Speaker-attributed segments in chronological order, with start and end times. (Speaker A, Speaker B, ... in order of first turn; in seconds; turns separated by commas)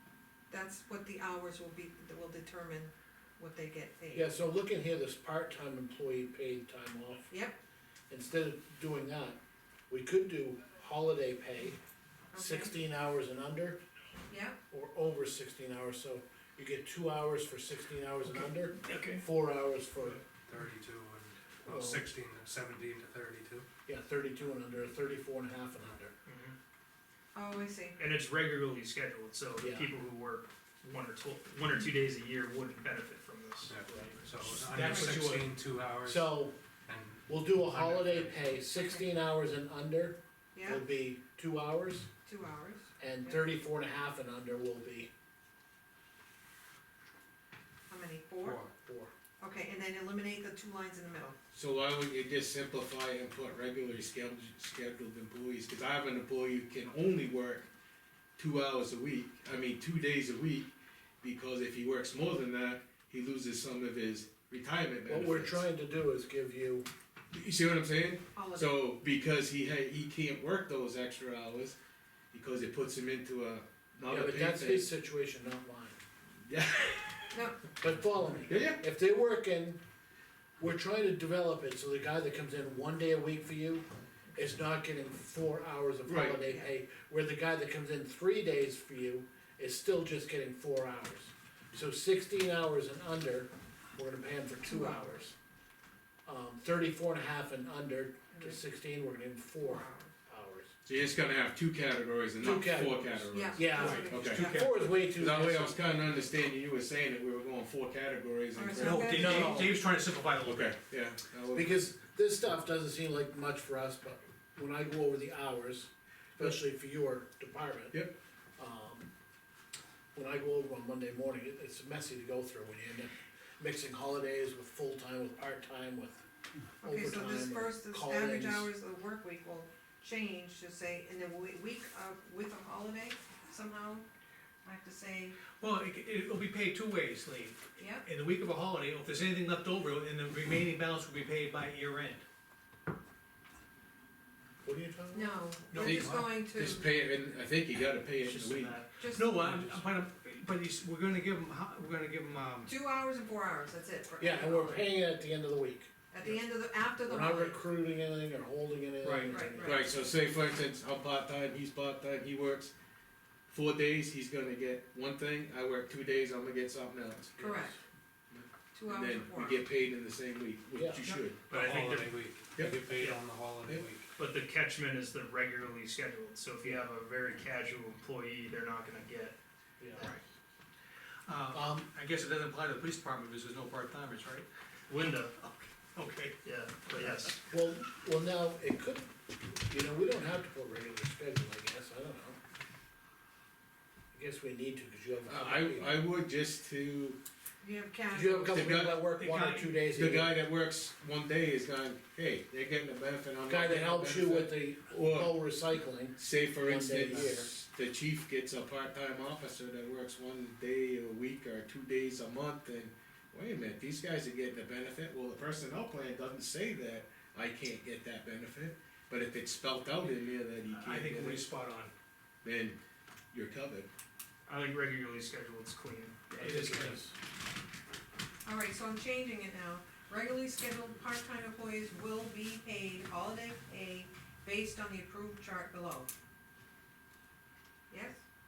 Speaker A: 0.5-4.3, Speaker B: 4.1-7.3, Speaker A: 7.3-7.6, Speaker B: 8.1-9.4, Speaker B: 9.9-11.8, Speaker A: 12.3-12.7, Speaker B: 12.3-13.8, Speaker A: 14.3-14.6, Speaker B: 14.7-20.2, Speaker C: 18.9-19.2, Speaker D: 18.9-19.2, Speaker E: 20.2-23.7, Speaker B: 21.6-22.1, Speaker B: 23.9-26.1, Speaker D: 26.2-26.5, Speaker A: 27.3-28.0, Speaker D: 28.0-33.7, Speaker B: 29.6-29.9, Speaker E: 33.7-38.6, Speaker B: 33.9-34.2, Speaker C: 34.7-35.5, Speaker A: 34.8-35.2, Speaker B: 36.0-36.5, Speaker B: 37.3-42.1, Speaker A: 38.7-39.0, Speaker A: 40.5-40.8, Speaker A: 42.2-43.5, Speaker B: 43.0-45.1, Speaker A: 47.9-48.6, Speaker E: 48.4-48.7, Speaker B: 48.7-49.1, Speaker A: 49.4-51.3, Speaker F: 51.5-57.7, Speaker F: 58.4-65.6, Speaker B: 65.1-66.9, Speaker F: 67.3-71.8, Speaker A: 68.3-68.8, Speaker F: 72.3-74.9, Speaker B: 74.1-76.0, Speaker F: 76.5-77.4, Speaker A: 77.3-77.6, Speaker B: 77.8-79.8, Speaker F: 78.5-78.8, Speaker B: 80.6-95.3, Speaker F: 86.0-86.4, Speaker A: 94.7-95.2, Speaker B: 96.2-100.7, Speaker A: 98.3-98.6, Speaker A: 99.6-100.1, Speaker F: 100.8-109.6, Speaker B: 102.4-105.8, Speaker A: 103.3-104.7, Speaker C: 103.7-105.0, Speaker A: 108.5-109.4, Speaker C: 108.7-110.7, Speaker B: 109.1-109.8, Speaker F: 110.4-111.7, Speaker B: 111.5-118.0, Speaker B: 118.6-119.1, Speaker B: 120.1-126.2, Speaker B: 126.8-128.7, Speaker A: 126.8-134.0, Speaker A: 134.6-135.5, Speaker C: 135.4-142.2, Speaker A: 137.8-138.1, Speaker B: 144.6-145.4, Speaker A: 145.1-146.9, Speaker C: 145.7-146.3, Speaker F: 145.7-148.8, Speaker C: 148.3-152.7, Speaker D: 148.4-148.8, Speaker A: 149.0-149.4, Speaker E: 149.4-149.8, Speaker A: 152.7-154.9, Speaker B: 154.2-155.9, Speaker A: 156.1-157.6, Speaker B: 157.0-159.9, Speaker C: 159.0-159.4, Speaker A: 159.3-159.8, Speaker F: 159.6-162.7, Speaker F: 163.5-167.4, Speaker B: 167.4-167.8, Speaker A: 167.4-167.8, Speaker F: 168.3-171.4, Speaker A: 168.7-169.6, Speaker B: 170.7-171.0, Speaker D: 171.0-172.1, Speaker E: 171.5-174.1, Speaker D: 172.9-173.2, Speaker D: 174.2-179.3, Speaker B: 179.8-180.1, Speaker C: 181.3-184.5, Speaker B: 181.5-181.9, Speaker D: 184.9-185.3, Speaker C: 185.3-187.3, Speaker D: 186.4-187.4, Speaker B: 187.5-192.4, Speaker B: 194.1-196.0, Speaker F: 195.3-197.2, Speaker A: 197.6-198.7, Speaker B: 198.1-200.4, Speaker F: 198.5-199.1, Speaker C: 199.1-199.8, Speaker F: 199.9-205.3, Speaker B: 203.5-207.5, Speaker F: 206.2-221.4, Speaker C: 220.7-221.9, Speaker F: 222.4-222.8, Speaker F: 223.3-223.9, Speaker D: 224.5-226.5, Speaker C: 226.4-227.0, Speaker B: 226.4-227.1, Speaker A: 228.4-236.1, Speaker A: 237.9-238.2